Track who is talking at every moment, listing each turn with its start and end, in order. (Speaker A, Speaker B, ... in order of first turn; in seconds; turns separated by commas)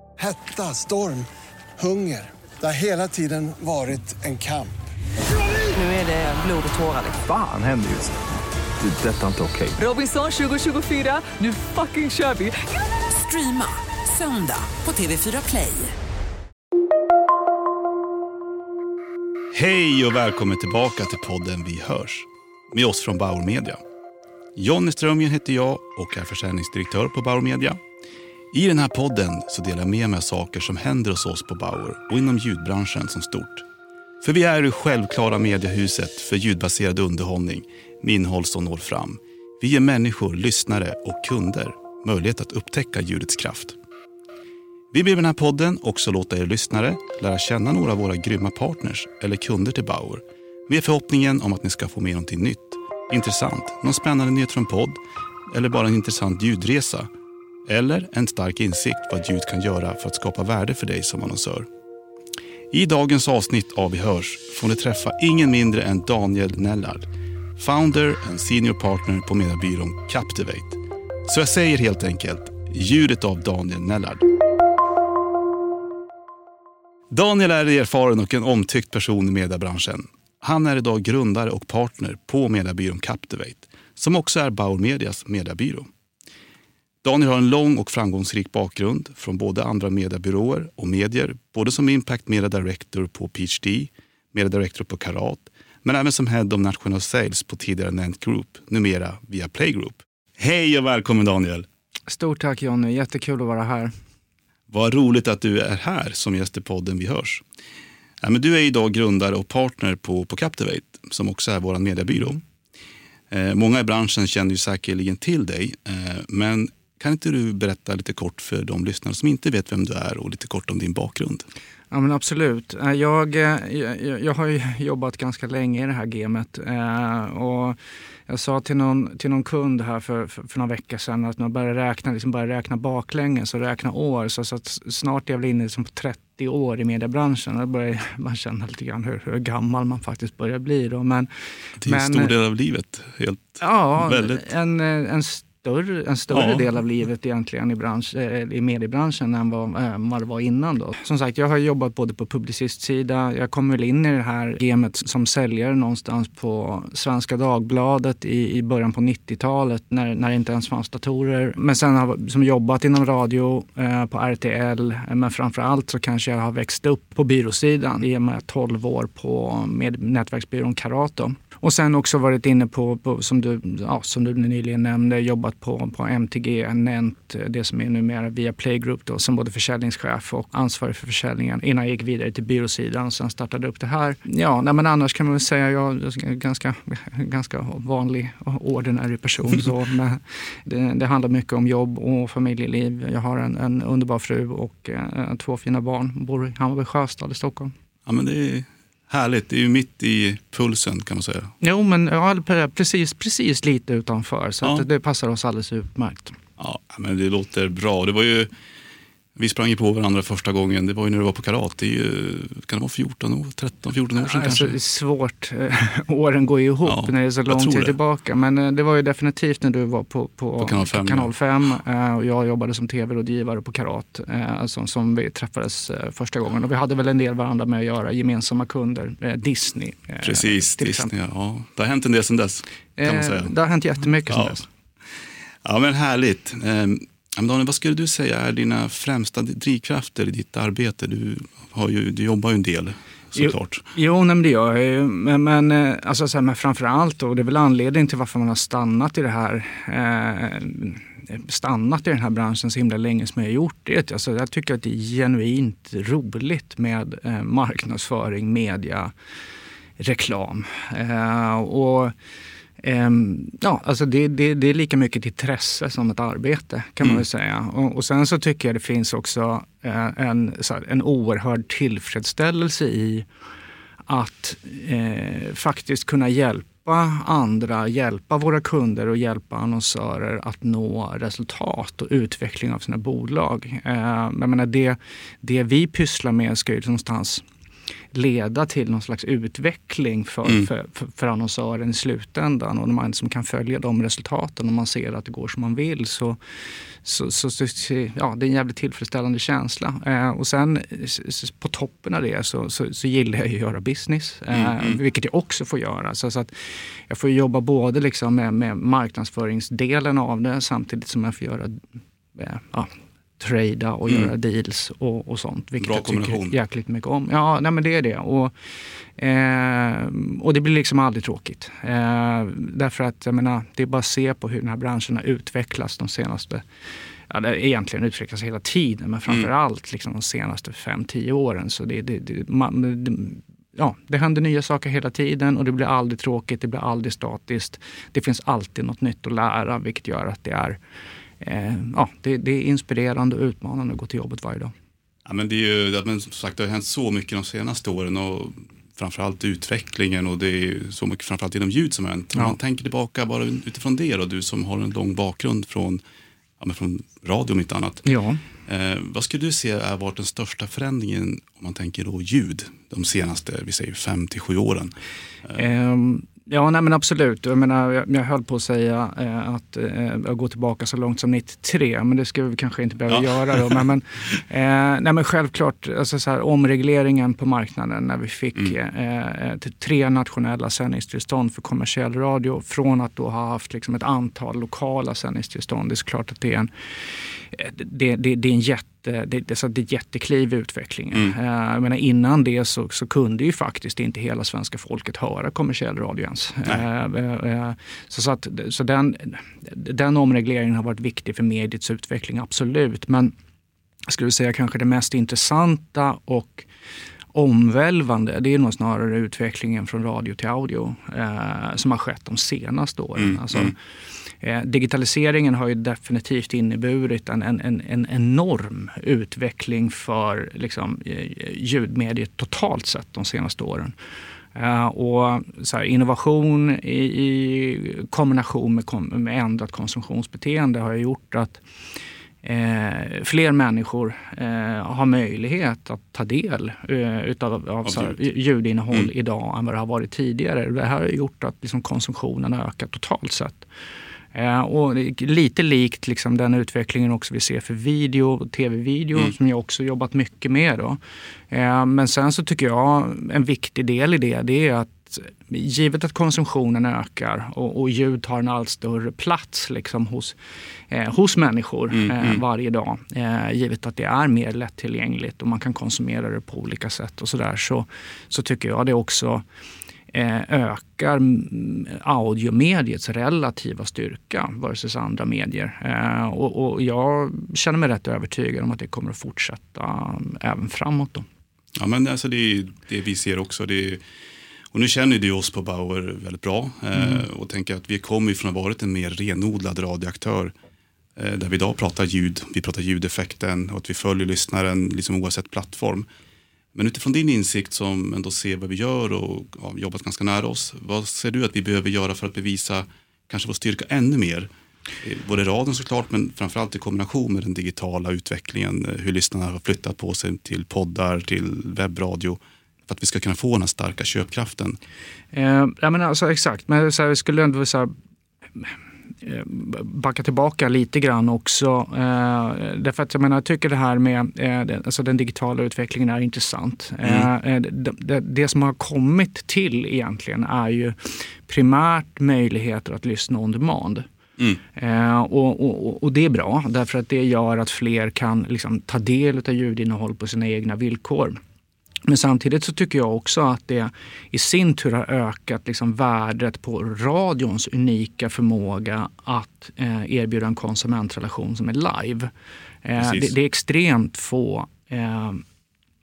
Speaker A: 0.2-1.3, Speaker A: 1.8-4.8, Speaker B: 5.7-7.2, Speaker C: 7.1-8.2, Speaker C: 8.8-9.8, Speaker B: 9.8-15.9, Speaker D: 19.5-23.8, Speaker D: 24.5-27.8, Speaker D: 28.5-33.6, Speaker D: 34.2-43.8, Speaker D: 44.9-57.1, Speaker D: 57.6-61.7, Speaker D: 62.7-74.3, Speaker D: 77.1-85.9, Speaker D: 87.0-101.7, Speaker E: 102.1-103.9, Speaker D: 104.7-107.4, Speaker D: 108.2-112.4, Speaker D: 113.3-121.5, Speaker E: 121.9-141.3, Speaker D: 141.8-144.5, Speaker E: 141.8-142.3, Speaker E: 143.6-197.7, Speaker D: 146.3-146.6, Speaker D: 198.1-201.5, Speaker E: 201.6-206.4, Speaker D: 206.6-208.5, Speaker D: 209.3-214.8, Speaker E: 214.2-231.1, Speaker D: 216.8-217.9, Speaker D: 220.6-221.3, Speaker D: 230.2-233.5, Speaker E: 233.0-234.7, Speaker D: 234.3-234.6, Speaker D: 235.6-243.8, Speaker E: 243.3-259.1, Speaker E: 260.0-262.1, Speaker E: 262.8-273.2, Speaker E: 274.1-287.4, Speaker E: 288.1-296.4, Speaker E: 297.0-306.5, Speaker D: 304.5-305.0, Speaker E: 307.1-311.8, Speaker E: 312.4-318.5, Speaker D: 315.8-316.6, Speaker E: 319.2-326.6, Speaker E: 327.3-340.8, Speaker E: 341.4-344.7, Speaker D: 345.2-356.0, Speaker D: 356.6-358.0, Speaker E: 358.0-358.4, Speaker D: 358.6-364.9, Speaker E: 365.5-386.7, Speaker D: 373.1-373.7, Speaker E: 387.4-403.3, Speaker E: 404.1-406.7, Speaker E: 407.3-413.8, Speaker D: 413.2-413.7, Speaker E: 414.4-423.9, Speaker E: 424.5-431.6, Speaker E: 432.4-443.6, Speaker D: 437.8-438.1, Speaker E: 444.3-451.0, Speaker E: 451.5-460.4, Speaker E: 460.9-469.4, Speaker D: 461.9-462.4, Speaker E: 470.1-481.2, Speaker D: 481.8-484.0, Speaker D: 484.7-490.5, Speaker D: 491.1-496.1, Speaker D: 496.7-504.5, Speaker D: 505.0-514.8, Speaker E: 515.3-517.9, Speaker E: 518.6-534.1, Speaker D: 527.0-527.3, Speaker E: 534.7-541.4, Speaker E: 542.1-552.3, Speaker E: 552.8-555.4, Speaker D: 553.0-553.3